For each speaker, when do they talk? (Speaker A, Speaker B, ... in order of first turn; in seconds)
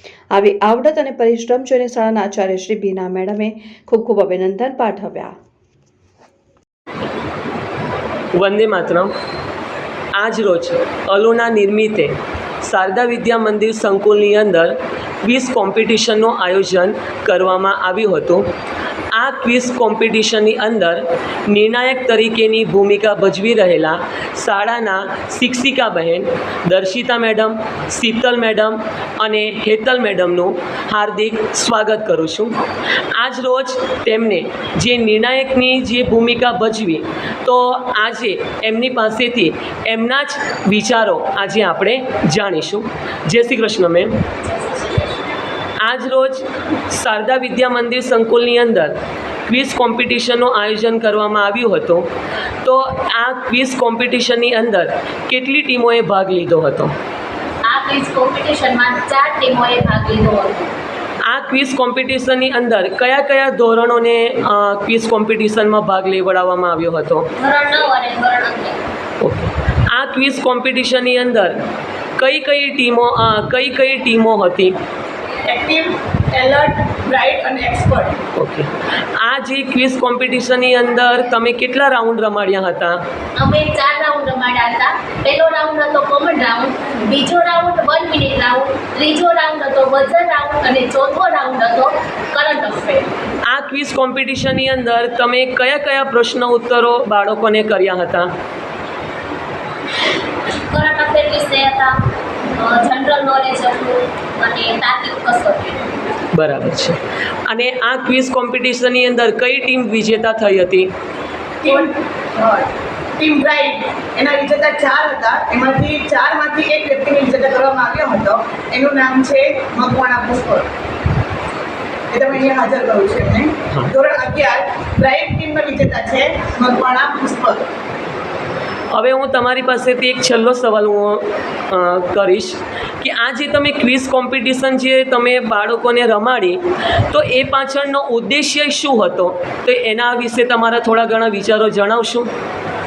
Speaker A: 0.3-5.3
Speaker B: 8.3-9.1, 10.2-12.1, 12.6-18.4, 19.1-32.6, 33.1-44.2, 45.8-49.0, 49.5-52.1, 52.6-56.9, 61.2-67.3, 69.2-71.6, 72.2-74.7, 78.3-83.0, 93.5-98.3, 106.3-110.9, 128.9-136.6, 137.1-142.3
Speaker C: 44.5-45.1, 57.7-60.7, 67.4-68.8, 83.4-93.1, 100.7-102.0, 102.6-106.0
Speaker D: 75.5-78.2, 111.6-120.7, 122.1-127.6